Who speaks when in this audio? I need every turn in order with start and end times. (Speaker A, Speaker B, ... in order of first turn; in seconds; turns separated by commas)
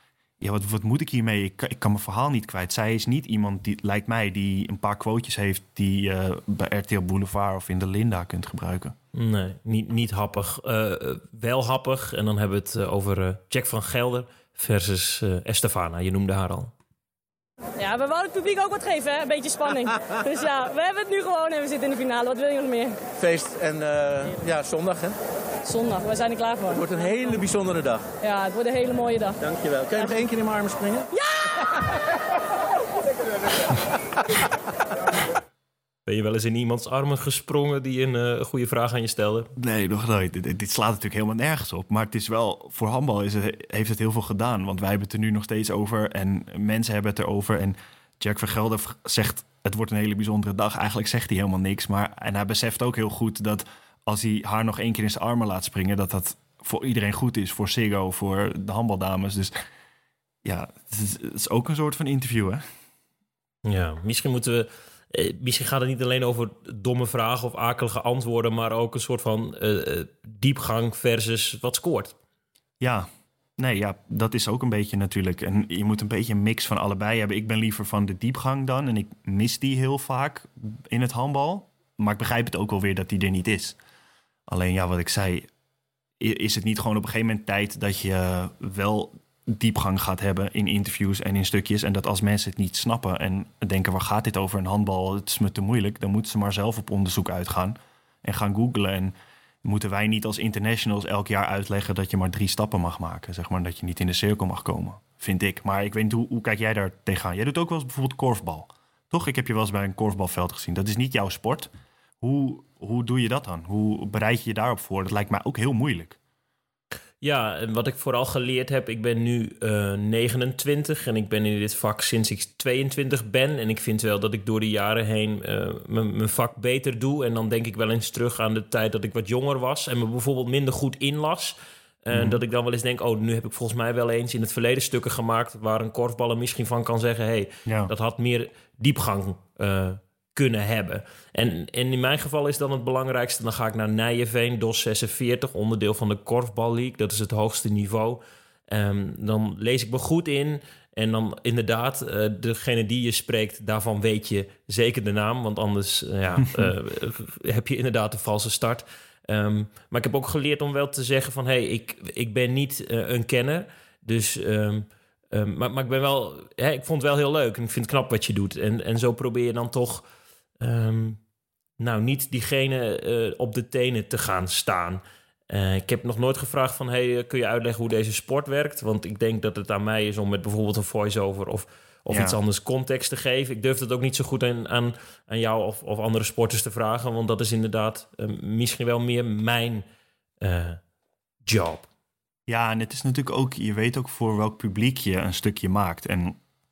Speaker A: 0.4-8.9, Speaker B: 9.1-16.7, Speaker C: 17.8-23.0, Speaker D: 23.2-25.2, Speaker C: 25.6-26.9, Speaker D: 26.7-28.0, Speaker C: 28.2-29.4, Speaker D: 29.4-31.1, Speaker C: 30.0-30.3, Speaker C: 31.1-31.5, Speaker B: 36.0-39.5, Speaker A: 39.5-59.5, Speaker A: 60.4-62.6, Speaker B: 63.6-72.2, Speaker A: 72.8-83.8, Speaker A: 84.5-85.5, Speaker A: 86.2-111.7, Speaker A: 112.2-116.2, Speaker B: 117.2-170.0, Speaker A: 132.1-132.4, Speaker A: 137.7-137.9, Speaker B: 170.6-171.2, Speaker B: 171.8-189.8, Speaker A: 182.1-182.4, Speaker B: 190.4-190.8, Speaker B: 191.4-191.9, Speaker A: 192.5-196.4